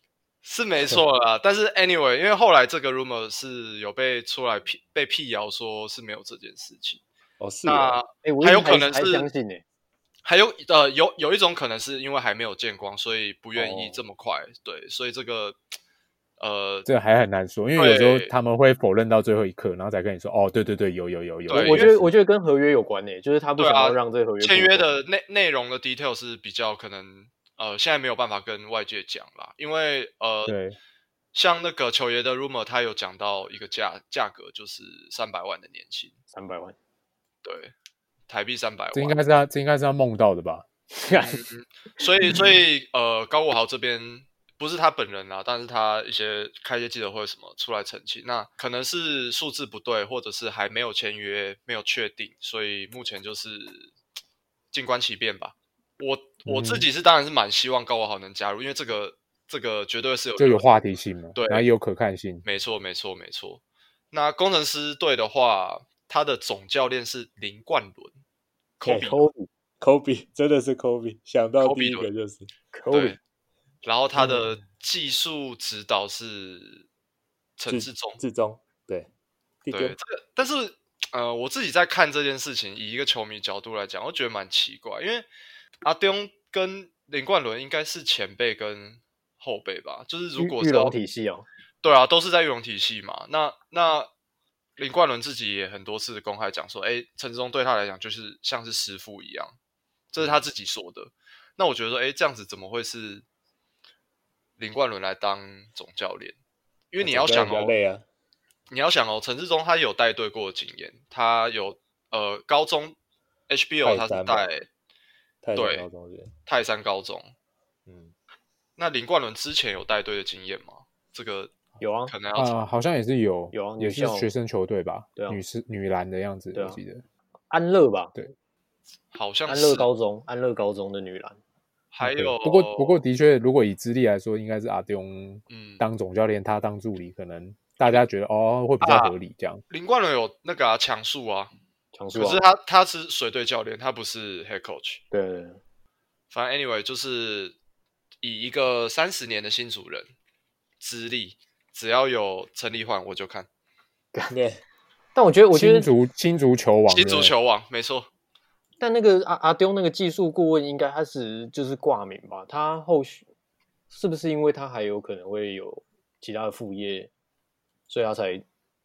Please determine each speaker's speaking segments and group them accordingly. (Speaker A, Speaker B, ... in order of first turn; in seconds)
Speaker A: 0.4-7.0, 7.7-9.3, 10.2-15.6, 16.4-16.9, 17.8-18.3, 21.5-21.9, 23.6-30.6, 31.3-36.2, 37.4-37.7, 38.3-39.2, 41.1-53.9, 54.7-61.7, 62.4-63.6, 64.1-68.2, 68.8-69.2, 71.6-72.1, 72.9-73.2, 73.8-76.9, 77.6-78.2, 79.7-85.3, 85.8-91.0, 91.8-94.1, 94.8-99.5, 100.1-103.2, 104.6-106.4, 106.9-107.8, 108.7-113.0, 113.5-114.7, 115.5-115.9, 116.5-117.3, 118.8-121.5, 122.1-122.6, 129.1-129.9, 131.9-133.0, 135.5-135.8, 138.8-139.2, 139.7-141.5, 142.1-145.0, 146.3-147.6, 148.2-150.1, 150.8-153.5, 156.9-158.1
Speaker B: 7.4-8.0, 69.8-72.5, 77.7-79.1, 79.7-80.0, 107.0-108.0, 113.8-114.5, 115.4-116.3, 117.9-118.1, 154.3-154.6
Speaker C: 8.2-9.6, 13.6-14.0, 21.5-24.9, 36.3-36.8, 68.8-69.5, 72.7-73.2, 90.4-91.5, 121.8-122.1, 123.5-124.3, 126.5-126.8, 127.5-128.2, 129.5-131.4, 141.9-142.4, 145.1-145.6, 155.2-155.9, 158.8-163.2, 163.9-167.1, 167.9-168.4
Speaker D: 16.9-22.1, 30.5-30.8, 38.9-40.7, 56.5-56.9, 60.4-62.4, 122.3-127.0, 132.0-139.6, 155.5-157.3